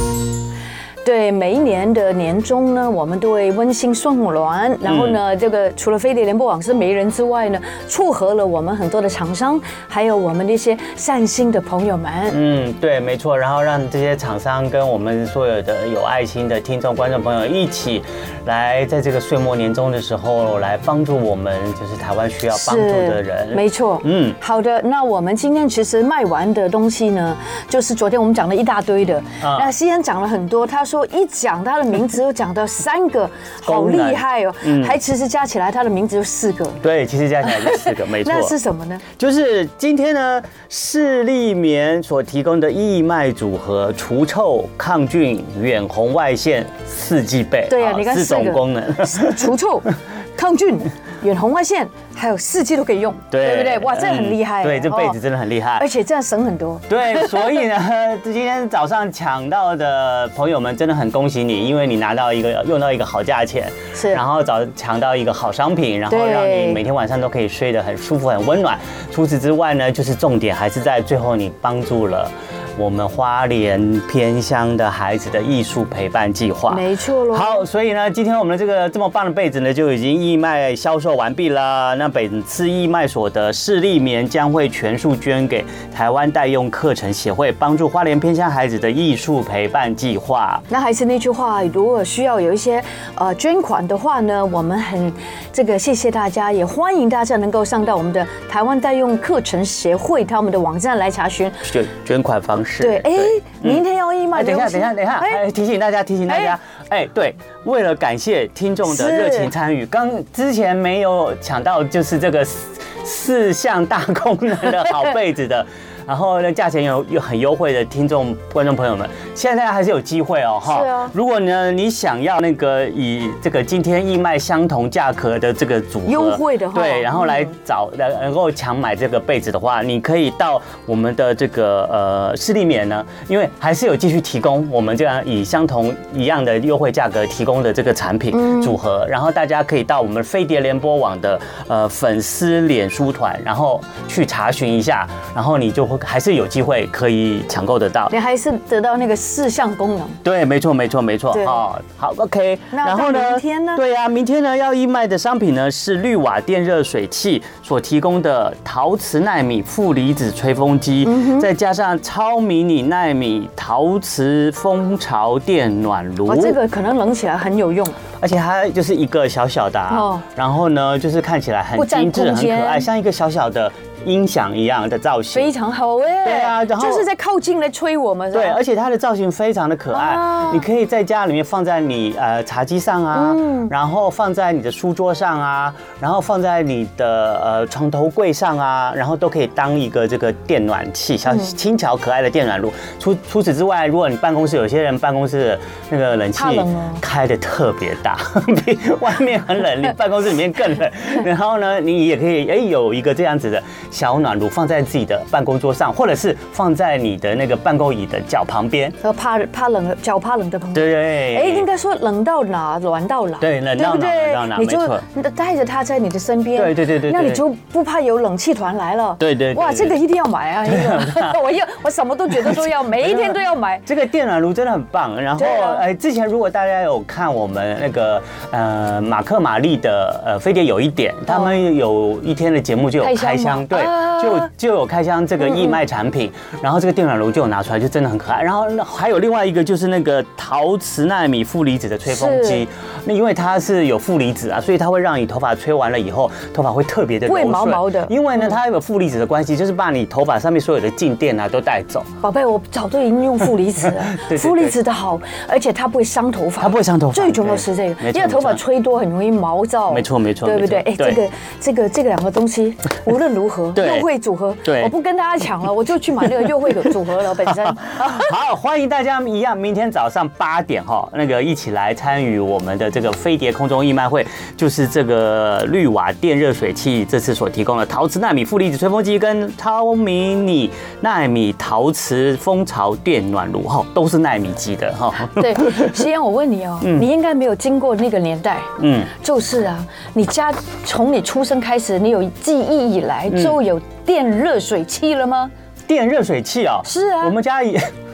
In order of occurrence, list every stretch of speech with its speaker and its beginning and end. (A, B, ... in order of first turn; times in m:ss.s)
0:01.0-0:12.4 A
0:04.8-0:05.2 B
0:12.3-0:24.4 B
0:22.5-0:36.8 A
0:29.4-0:29.7 B
0:33.6-0:35.0 B
0:36.8-0:38.6 B
0:37.4-0:39.0 A
0:39.2-0:49.5 B
0:47.7-0:55.2 A
0:53.3-0:55.9 B
0:55.8-0:57.6 A
0:56.9-1:30.6 B
1:03.9-1:04.2 A
1:06.1-1:06.8 A
1:16.7-1:17.6 A
1:30.7-1:41.7 A
1:41.6-2:28.1 B
1:42.8-1:45.4 A
1:46.3-1:46.6 A
1:48.9-1:49.5 A
2:00.7-2:01.2 A
2:06.1-2:07.5 A
2:18.3-2:18.8 A
2:28.1-2:30.2 A
2:30.2-2:46.6 B
2:31.3-2:31.6 A
2:32.7-2:33.8 A
2:41.0-2:41.5 A
2:46.3-2:48.0 A
2:48.2-2:55.5 B
2:49.9-2:50.2 A
2:51.8-2:52.9 A
2:55.3-2:58.6 A
2:56.2-2:57.1 B
2:58.3-3:29.0 B
2:59.9-3:00.6 A
3:03.1-3:03.7 A
3:16.4-3:17.0 A
3:29.0-3:43.8 A
3:30.7-3:31.7 B
3:33.4-3:35.0 B
3:36.6-3:37.4 B
3:39.2-3:40.0 B
3:40.7-3:41.4 B
3:42.4-4:12.1 B
3:45.4-3:45.8 A
3:51.3-3:51.6 A
3:53.0-3:54.5 A
3:55.4-3:55.8 A
4:02.1-4:02.6 A
4:07.3-4:08.5 A
4:12.2-4:28.3 A
4:14.1-4:14.8 B
4:16.6-4:18.6 B
4:19.9-4:21.2 B
4:23.8-4:24.1 B
4:24.6-4:24.9 B
4:27.8-4:46.0 B
4:45.2-4:55.5 A
4:46.8-4:47.1 B
4:48.8-4:49.1 B
4:53.3-4:53.6 B
4:55.9-4:57.9 B
4:56.9-4:57.3 A